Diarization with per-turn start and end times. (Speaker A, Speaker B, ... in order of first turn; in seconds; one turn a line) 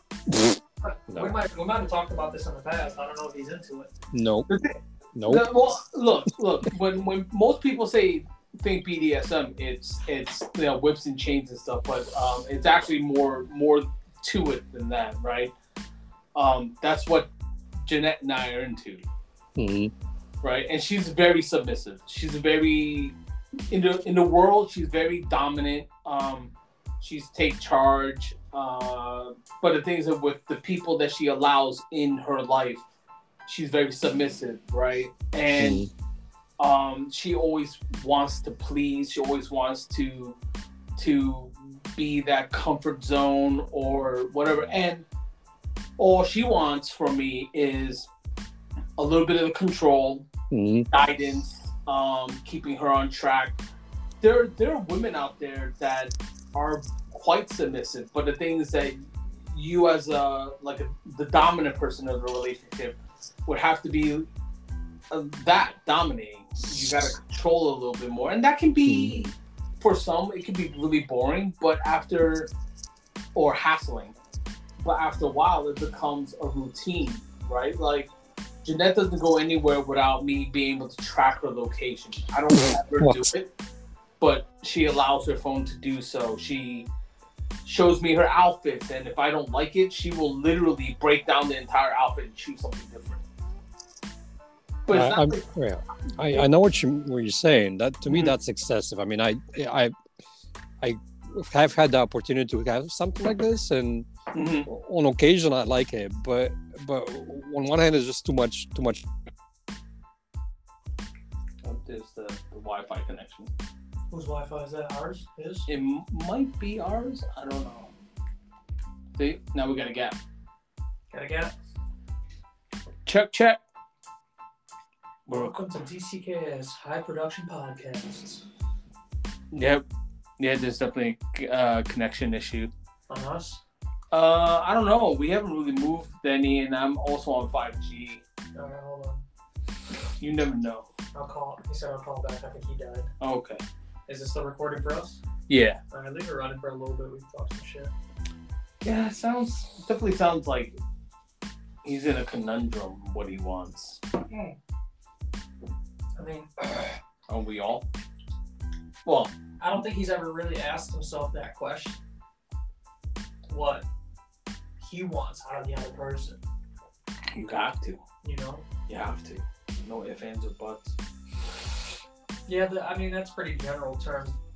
Speaker A: 0.3-1.3
Speaker B: 0.8-3.9
Speaker A: 4.1-4.5
Speaker C: 4.5-15.5
Speaker A: 5.1-5.5
Speaker C: 16.3-17.3
Speaker C: 17.8-19.0
Speaker A: 19.6-19.9
Speaker C: 20.4-23.1
Speaker C: 23.7-32.8
Speaker C: 33.5-35.9
Speaker A: 35.5-35.9
Speaker C: 36.6-40.4
Speaker C: 41.0-45.0
Speaker C: 46.0-48.1
Speaker C: 49.0-50.3
Speaker A: 50.5-50.9
Speaker C: 50.9-53.6
Speaker C: 54.2-64.3
Speaker C: 65.1-72.5
Speaker A: 68.8-69.2
Speaker C: 73.3-74.2
Speaker C: 74.8-78.1
Speaker C: 78.6-83.5
Speaker A: 83.0-83.3
Speaker C: 84.2-86.9
Speaker C: 87.6-93.2
Speaker C: 94.8-95.4
Speaker A: 94.9-99.9
Speaker A: 100.8-104.1
Speaker C: 104.3-104.7
Speaker A: 104.6-109.0
Speaker C: 111.6-113.5
Speaker B: 114.1-115.7
Speaker C: 115.7-117.9
Speaker C: 119.2-120.2
Speaker B: 121.1-121.5
Speaker C: 123.0-123.6
Speaker C: 125.3-125.5
Speaker B: 125.3-128.4
Speaker C: 129.5-129.8
Speaker C: 130.4-132.7
Speaker B: 133.1-133.6
Speaker C: 134.1-138.2
Speaker B: 138.5-139.2
Speaker C: 140.2-140.9
Speaker B: 141.1-143.1
Speaker C: 143.2-143.6
Speaker B: 144.1-145.2
Speaker C: 145.5-145.8
Speaker B: 145.9-147.9
Speaker C: 148.8-150.8
Speaker C: 151.8-154.0
Speaker B: 156.2-156.7
Speaker C: 157.3-157.9
Speaker C: 159.0-159.3
Speaker B: 159.6-162.0
Speaker B: 163.5-163.8
Speaker B: 164.8-166.4
Speaker C: 167.3-168.0
Speaker B: 168.2-168.6
Speaker C: 168.9-170.9
Speaker B: 172.5-174.4